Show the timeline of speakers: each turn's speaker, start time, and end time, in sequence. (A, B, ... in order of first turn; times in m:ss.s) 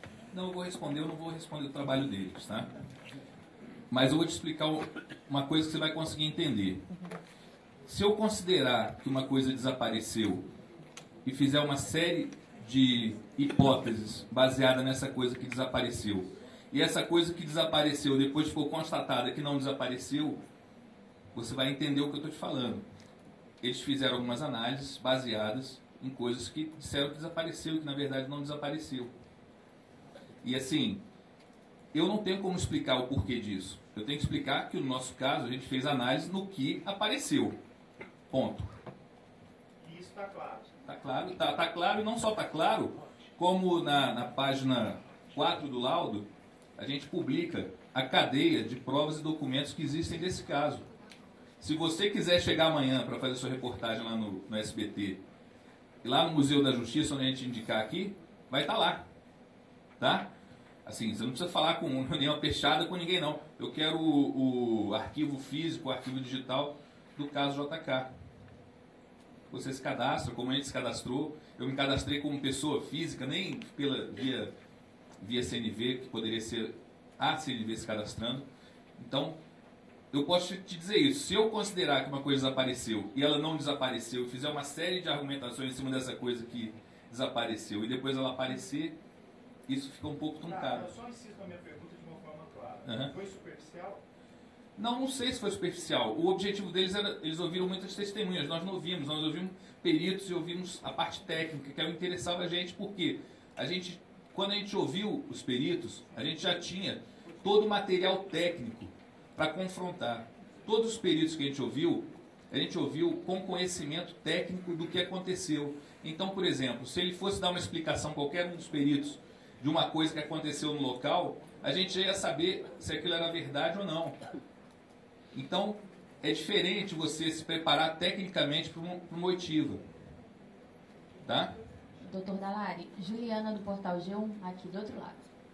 0:00.3-0:02.7 A
0:03.9-0:06.8 A
0:07.9-0:10.4 A
0:11.2-0:20.4 A
0:21.3-0:22.8 A
0:23.6-0:29.1 A
0:30.4-0:31.0 A
0:31.9-0:37.6 A
0:38.3-0:38.7 A
0:39.8-0:40.6 B
0:40.8-0:46.2 A
0:46.8-0:50.9 A
0:51.6-0:55.2 A
0:56.0-0:59.0 A
1:00.0-1:00.3 A
1:00.8-1:08.1 A
1:09.5-1:14.5 A
1:15.2-1:18.4 A
1:19.0-1:19.4 A
1:20.1-1:29.0 A
1:29.7-1:30.9 A
1:30.5-1:34.0 B
1:32.8-1:33.1 A
1:34.8-2:04.2 A
2:05.3-2:09.8 A
2:11.2-2:11.5 A
2:12.0-2:15.2 C